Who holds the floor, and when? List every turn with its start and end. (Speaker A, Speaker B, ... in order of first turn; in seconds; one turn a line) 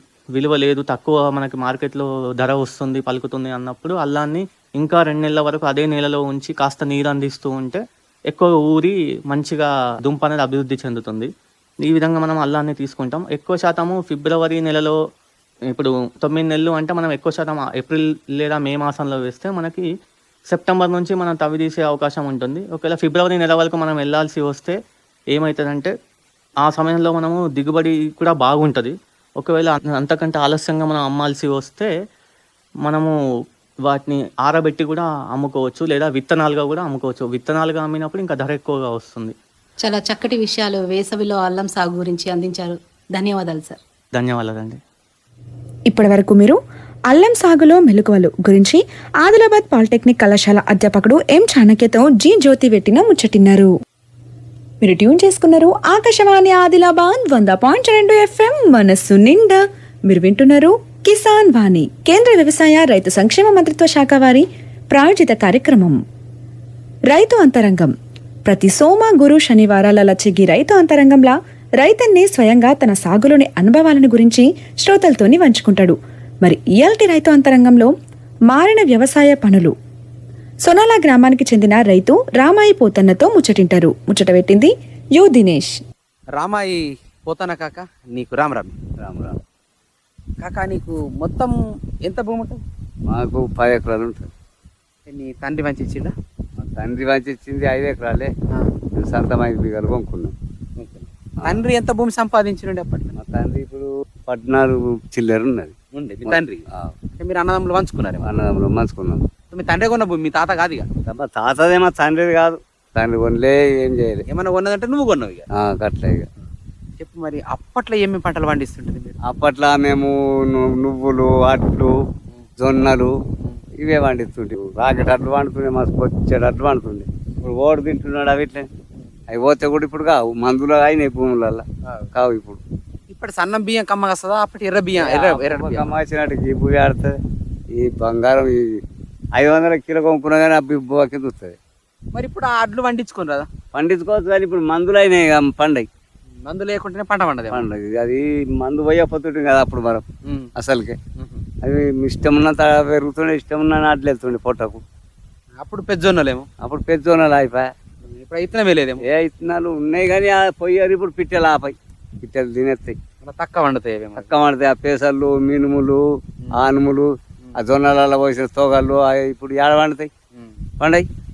Speaker A: 0.3-11.3
Speaker A: 11.8-15.0
Speaker A: 15.7-19.9
Speaker A: 20.5-24.8
Speaker A: 25.3-25.9
Speaker A: 26.6-31.9
Speaker A: 32.8-33.1
Speaker A: 33.9-39.3
Speaker B: 39.8-43.8
Speaker A: 44.1-44.8
Speaker C: 45.9-46.6
Speaker C: 47.1-53.7
Speaker C: 54.8-66.0
Speaker C: 67.1-67.9
Speaker C: 68.5-77.9
Speaker C: 78.5-79.7
Speaker C: 80.6-85.8
Speaker D: 86.3-88.8
Speaker E: 89.0-89.4
Speaker D: 90.4-92.6
Speaker E: 93.1-94.3
Speaker D: 95.1-96.1
Speaker E: 96.6-98.3
Speaker E: 99.0-100.3
Speaker D: 100.8-103.1
Speaker E: 103.2-105.7
Speaker D: 105.9-108.3
Speaker E: 106.3-107.0
Speaker E: 108.2-109.3
Speaker D: 109.5-110.9
Speaker E: 111.1-114.2
Speaker D: 114.3-115.5
Speaker E: 115.5-116.3
Speaker D: 117.0-119.2
Speaker E: 119.2-122.0
Speaker E: 122.6-128.7
Speaker E: 129.3-132.6
Speaker D: 133.1-135.9
Speaker E: 134.9-137.2
Speaker E: 137.7-138.8
Speaker E: 139.3-141.6
Speaker D: 142.1-143.5
Speaker E: 143.7-145.9
Speaker D: 146.4-147.7
Speaker E: 147.5-151.0
Speaker D: 150.3-150.5
Speaker D: 151.2-151.4
Speaker E: 151.6-154.8
Speaker D: 155.6-156.5
Speaker E: 156.6-157.7
Speaker D: 158.1-159.1
Speaker E: 159.0-163.0
Speaker D: 163.2-164.3
Speaker E: 164.2-170.1
Speaker E: 170.8-171.1